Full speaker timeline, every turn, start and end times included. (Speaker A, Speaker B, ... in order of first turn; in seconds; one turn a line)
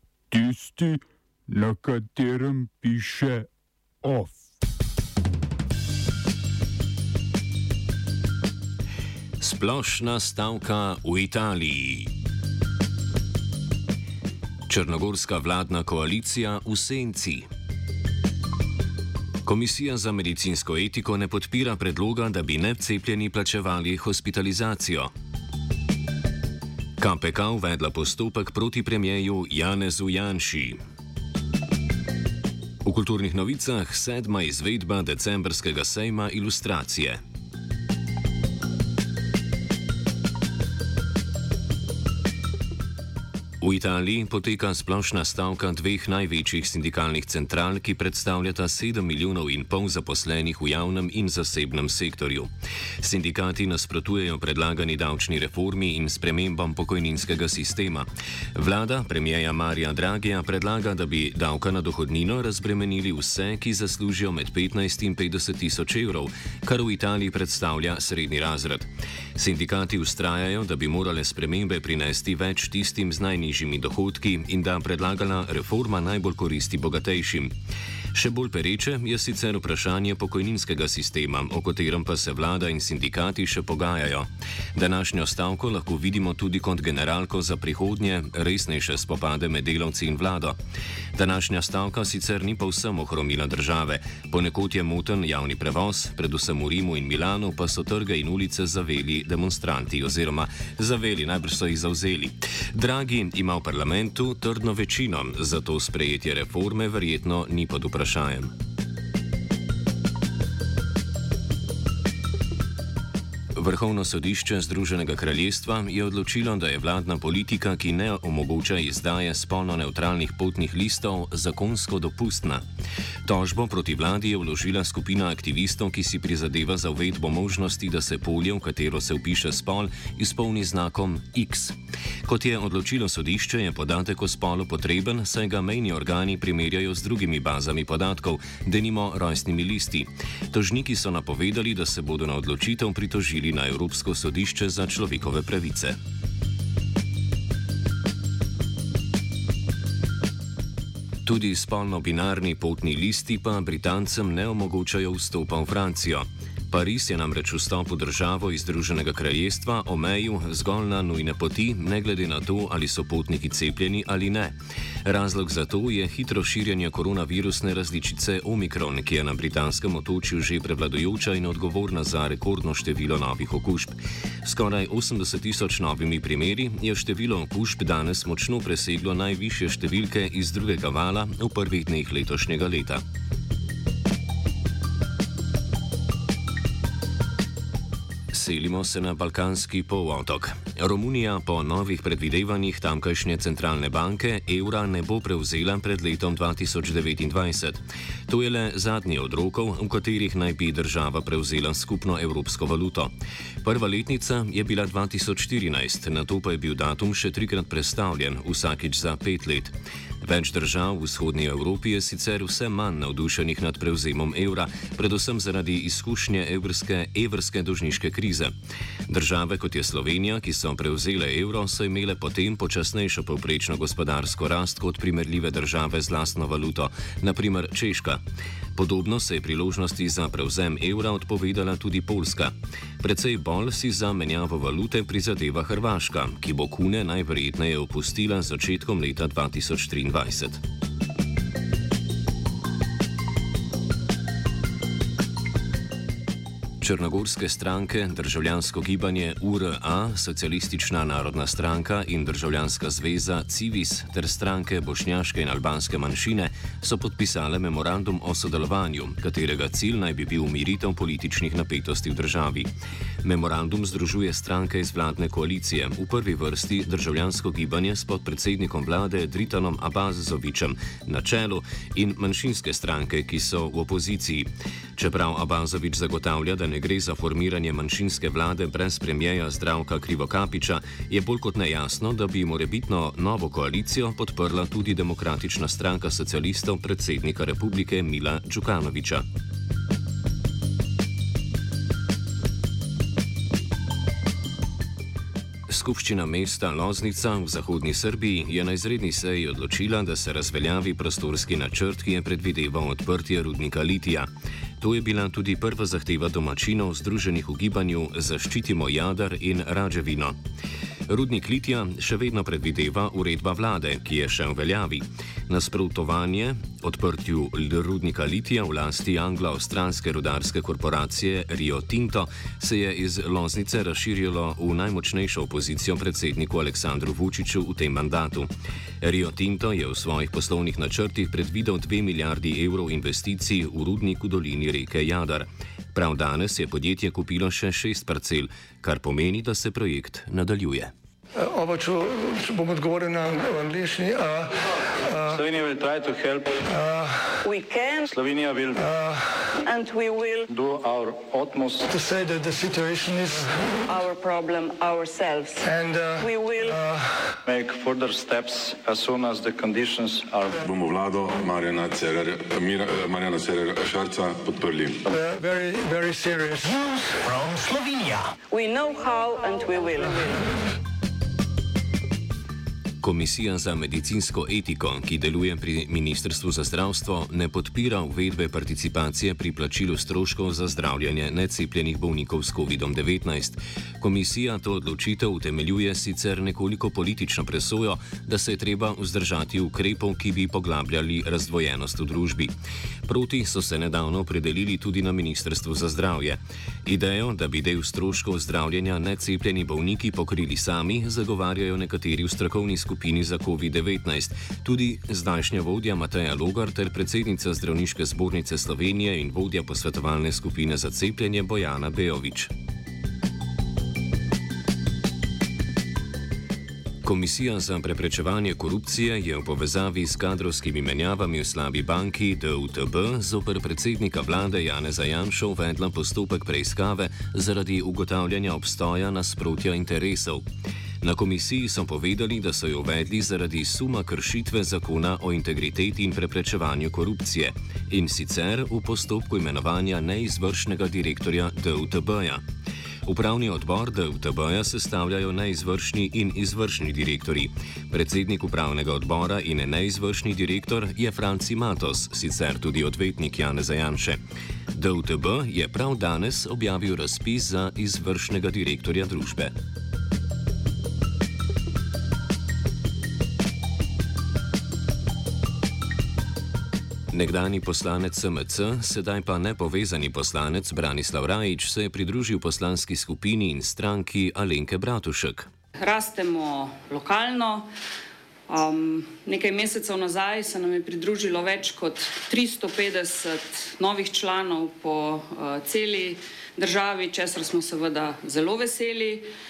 Speaker A: 0.3-3.5
Speaker A: 4.0-4.4
Speaker B: 9.4-12.1
Speaker B: 14.7-17.5
Speaker B: 19.4-25.1
Speaker B: 27.0-30.8
Speaker B: 32.8-37.2
Speaker B: 43.6-77.5
Speaker B: 78.1-90.6
Speaker B: 91.2-108.5
Speaker B: 113.5-122.6
Speaker B: 123.2-146.0
Speaker B: 151.2-183.0
Speaker B: 188.3-218.5
Speaker B: 219.1-228.2
Speaker B: 228.8-240.6
Speaker B: 246.8-262.7
Speaker B: 263.2-289.2
Speaker B: 295.7-310.4
Speaker B: 311.1-340.9
Speaker C: 341.4-344.5
Speaker C: 345.1-345.4
Speaker D: 345.3-346.6
Speaker C: 346.6-347.4
Speaker E: 347.4-348.1
Speaker D: 348.1-348.8
Speaker C: 348.8-349.5
Speaker E: 349.6-350.5
Speaker D: 350.5-351.9
Speaker C: 351.9-353.5
Speaker E: 353.9-355.6
Speaker C: 355.6-357.2
Speaker E: 356.2-356.7
Speaker D: 357.5-360.6
Speaker F: 360.7-364.8
Speaker C: 365.1-368.2
Speaker E: 368.5-370.5
Speaker B: 373.0-392.5
Speaker B: 393.1-412.5
Speaker B: 417.0-430.4
Speaker B: 431.0-442.4
Speaker B: 443.1-454.2
Speaker B: 454.7-459.5
Speaker B: 467.1-475.5
Speaker G: 475.8-477.7
Speaker G: 478.5-489.2